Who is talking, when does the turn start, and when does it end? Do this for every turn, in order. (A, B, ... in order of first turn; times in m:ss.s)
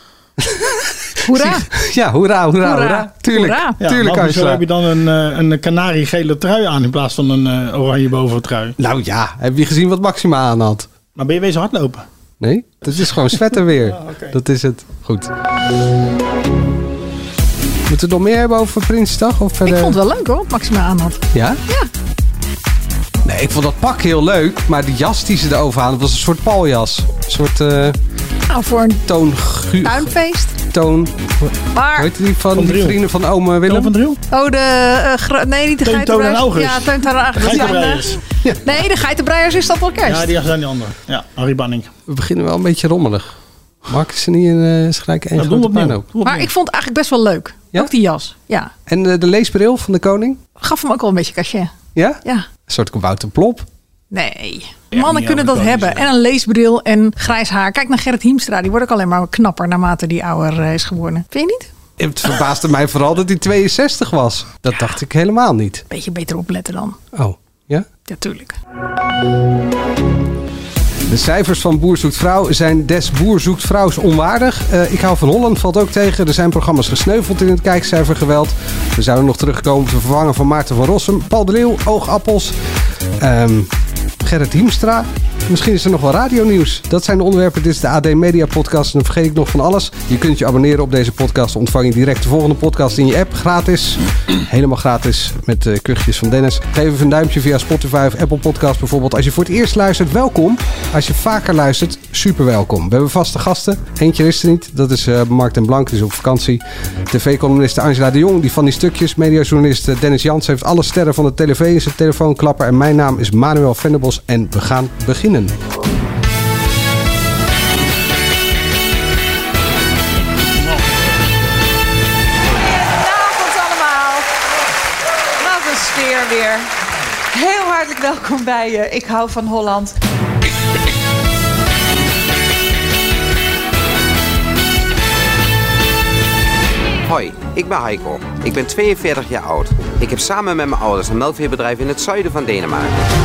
0:00.4-0:04.6 A
0:01.2-0:01.7 B
0:02.6-0:03.8 B
0:03.8-0:08.8 C
0:08.8-0:10.9 A
0:11.2-0:12.1 C
0:12.4-0:15.3 A
0:13.8-0:14.4 C
0:17.9-0:20.0 A
0:19.6-0:21.9 B
0:21.3-0:21.6 A
0:23.2-0:28.0 A
0:28.5-0:29.0 B
0:29.1-0:30.1 A
0:29.8-0:30.6 B
0:30.6-0:33.9 A
0:31.7-0:32.1 B
0:32.5-0:33.0 C
0:33.7-0:34.2 C
0:34.3-0:38.0 B
0:35.8-0:38.2 C
0:38.4-0:38.8 A
0:38.6-0:40.3 B
0:40.1-0:41.9 C
0:42.1-0:46.0 A
0:45.4-0:46.5 C
0:46.2-0:48.7 B
0:48.9-0:50.4 A
0:50.6-0:51.7 B
0:52.0-0:53.7 A
0:54.1-1:01.7 B
0:54.9-0:56.1 C
1:02.0-1:05.8 A
1:05.9-1:07.0 B
1:07.1-1:07.9 A
1:08.1-1:08.6 B
1:11.1-1:22.6 A
1:23.2-1:23.7 A
1:24.2-1:55.6 A
2:02.5-2:04.3 D
2:05.4-2:06.7 D
2:07.3-2:10.0 D
2:17.1-2:22.9 E